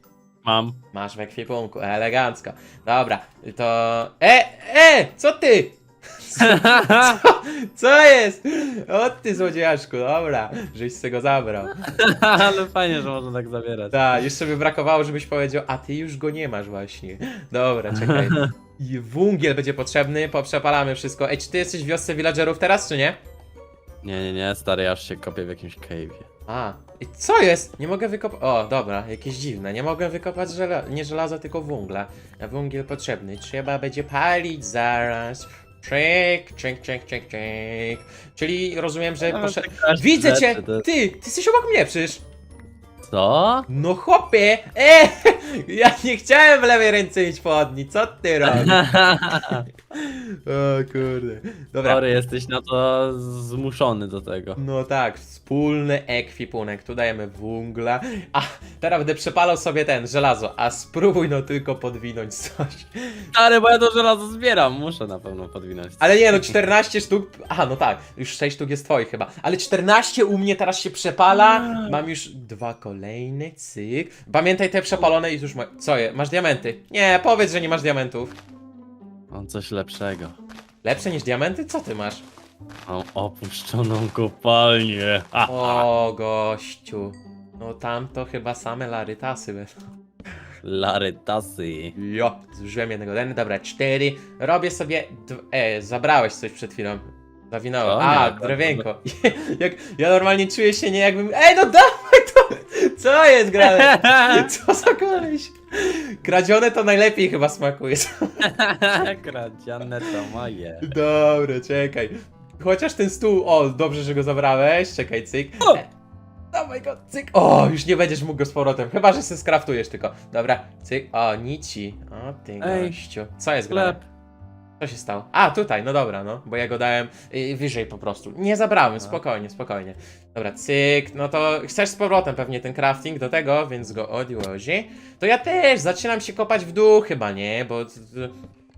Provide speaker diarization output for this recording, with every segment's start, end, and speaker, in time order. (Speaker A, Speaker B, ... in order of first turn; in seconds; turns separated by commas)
Speaker A: 0.4-0.8, Speaker B: 0.9-12.5, Speaker A: 6.4-7.2, Speaker A: 11.9-14.2, Speaker B: 13.9-23.2, Speaker A: 17.9-18.5, Speaker A: 24.0-26.3, Speaker B: 26.5-42.2, Speaker A: 39.2-40.9, Speaker A: 43.0-43.7, Speaker B: 43.7-52.2, Speaker A: 48.4-49.6, Speaker A: 51.8-54.6, Speaker B: 54.5-63.3, Speaker A: 63.3-66.6, Speaker B: 66.0-78.4, Speaker A: 71.3-72.0, Speaker A: 79.3-80.4, Speaker B: 80.8-82.2, Speaker A: 82.9-85.9, Speaker B: 85.5-89.7, Speaker A: 90.6-91.9, Speaker B: 92.0-108.5, Speaker A: 97.8-98.8, Speaker A: 103.6-104.5, Speaker A: 108.4-110.9, Speaker B: 110.8-115.9, Speaker B: 116.5-124.0, Speaker A: 122.6-122.9, Speaker A: 123.7-124.0, Speaker B: 124.8-138.3